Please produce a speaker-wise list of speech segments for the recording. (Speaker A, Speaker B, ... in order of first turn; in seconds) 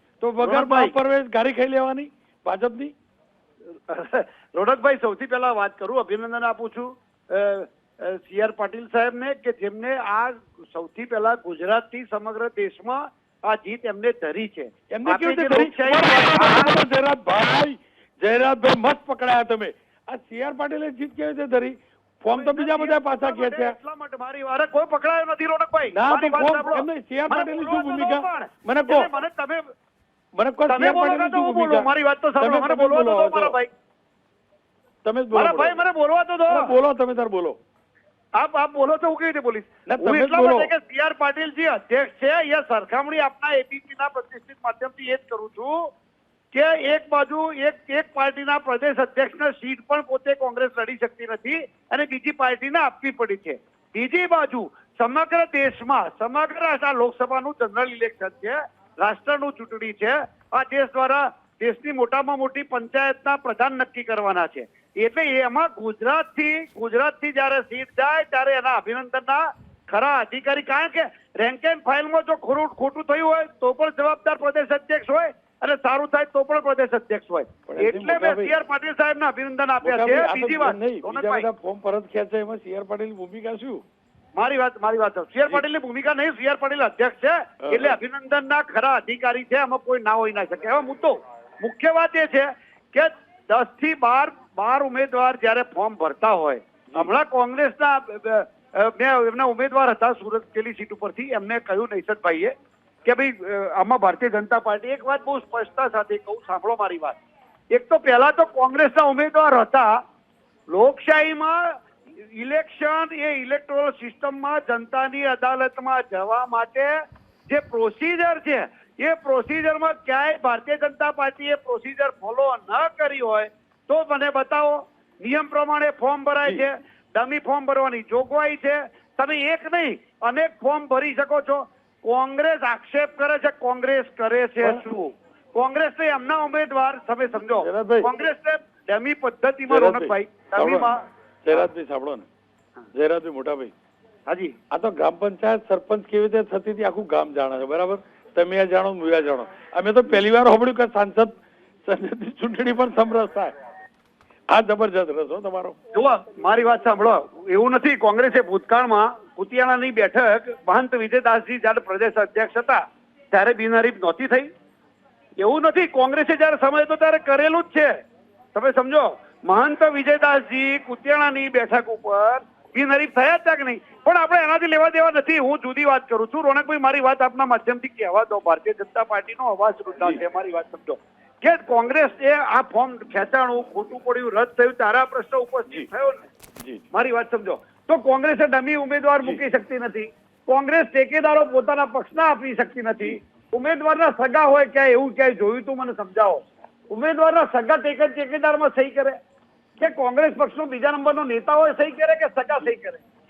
Speaker A: 0.2-2.9, 14.9-23.8, 25.9-29.1, 30.4-31.9, 32.4-33.6, 35.0-35.8, 36.5-37.6, 39.9-40.7, 77.7-78.5, 79.8-83.8, 87.6-88.0, 137.5-138.1, 139.7-140.9, 141.4-142.3, 142.9-143.7, 144.7-153.5, 154.5-155.8
Speaker B: 0.4-0.9, 3.9-16.8, 22.3-29.7, 30.7-33.7, 35.3-36.7, 38.4-45.9, 46.5-81.5, 84.4-102.5, 103.0-107.2, 107.7-110.0, 110.7-117.0, 117.5-141.0, 144.3-144.6, 155.9-164.5, 165.4-167.9, 168.5-186.3, 186.9-199.2, 199.8-203.0